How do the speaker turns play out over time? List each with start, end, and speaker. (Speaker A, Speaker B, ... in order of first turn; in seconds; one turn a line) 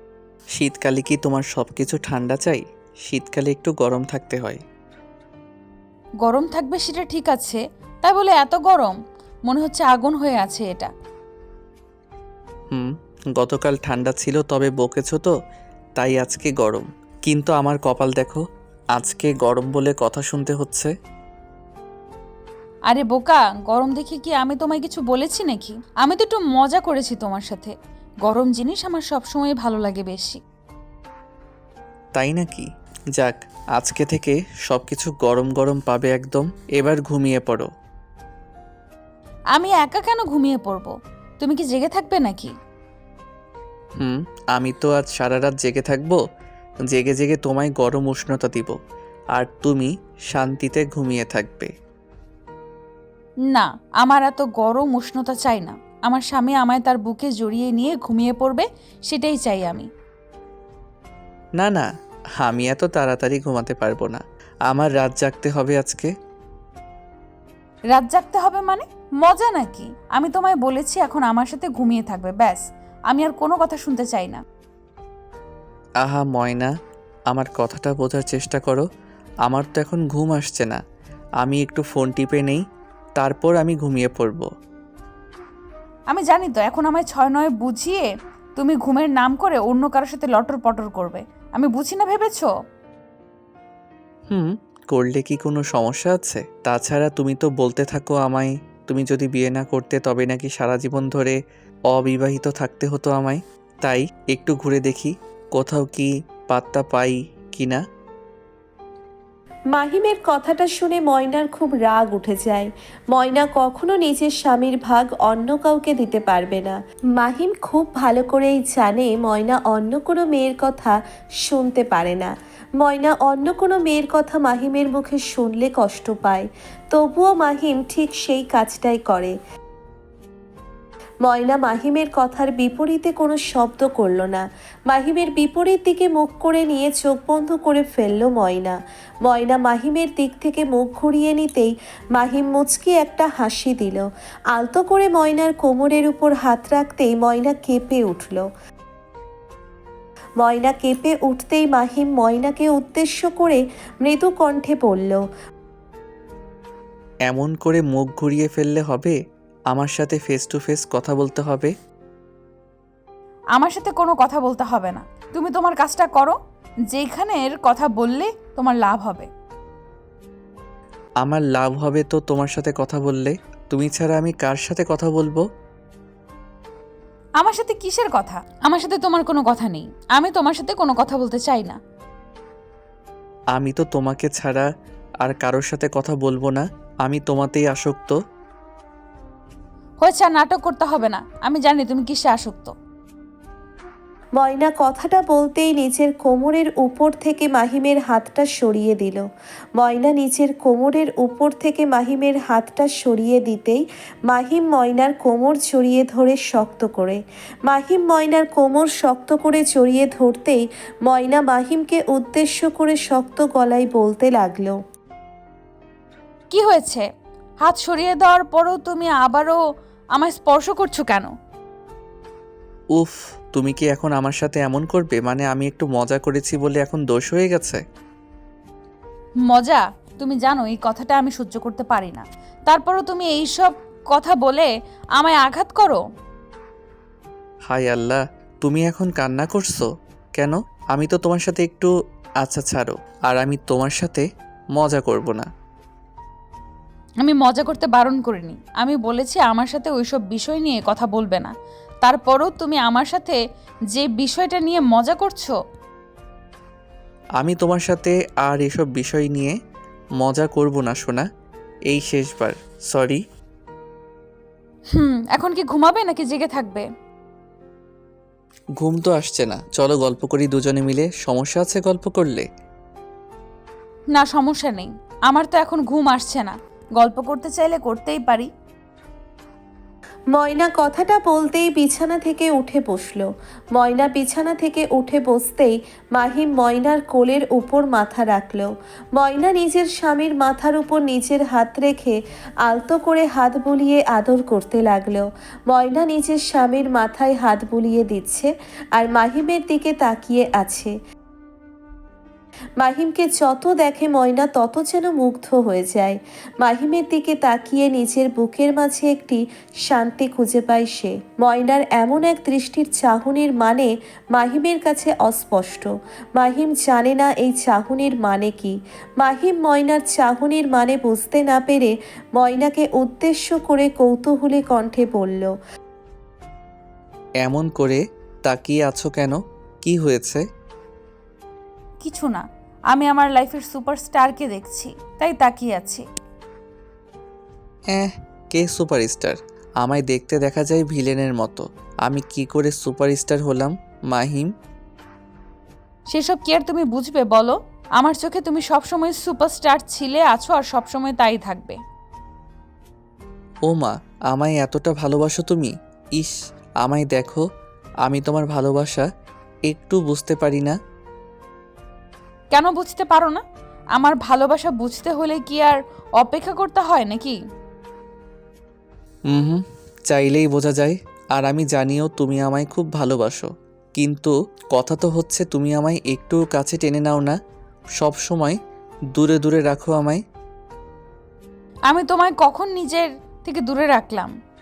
Speaker A: 0.6-4.6
Speaker B: 6.2-8.9
Speaker B: 9.5-10.9
Speaker A: 12.7-15.3
Speaker A: 16.0-18.4
Speaker A: 18.9-20.9
Speaker B: 22.9-27.7
Speaker B: 28.2-30.4
Speaker A: 32.1-37.7
Speaker B: 39.5-42.5
Speaker A: 44.0-46.2
Speaker A: 46.9-48.7
Speaker A: 49.3-51.7
Speaker B: 53.5-59.9
Speaker A: 61.6-61.9
Speaker A: 62.4-66.1
Speaker B: 67.9-74.4
Speaker A: 76.0-76.7
Speaker A: 77.3-78.8
Speaker A: 79.5-80.8
Speaker A: 81.4-82.6
Speaker A: 83.2-84.5
Speaker B: 86.1-92.5
Speaker A: 94.3-101.4
Speaker A: 101.9-107.8
Speaker C: 109.7-129.3
Speaker C: 131.2-148.4
Speaker C: 150.4-155.2
Speaker A: 157.3-159.2
Speaker A: 159.7-161.7
Speaker B: 163.6-166.3
Speaker B: 166.9-169.3
Speaker A: 171.2-175.4
Speaker B: 177.4-181.8
Speaker A: 183.5-184.7
Speaker A: 185.2-188.1
Speaker B: 190.0-192.7
Speaker C: 194.4-199.2
Speaker C: 199.8-214.8
Speaker B: 216.5-217.0
Speaker B: 217.6-219.6
Speaker B: 220.1-221.3
Speaker A: 222.9-227.8
Speaker B: 229.5-236.0
Speaker A: 237.7-241.9
Speaker A: 242.4-245.5
Speaker B: 247.2-251.5
Speaker B: 252.0-253.4
Speaker B: 253.9-255.5
Speaker A: 257.4-259.5
Speaker A: 260.2-261.2
Speaker A: 261.9-263.2
Speaker B: 264.9-266.8
Speaker A: 268.8-272.4
Speaker B: 274.1-278.5
Speaker C: 280.3-300.9
Speaker C: 302.8-325.5
Speaker A: 327.4-330.4
Speaker B: 332.0-336.0
Speaker A: 337.9-344.5
Speaker B: 346.1-351.8
Speaker A: 353.7-357.4
Speaker A: 358.0-359.1
Speaker A: 359.7-360.7
Speaker B: 362.5-363.4
Speaker B: 363.9-367.4
Speaker A: 369.3-377.4
Speaker A: 378.0-378.6
Speaker A: 379.1-380.2
Speaker B: 381.9-384.3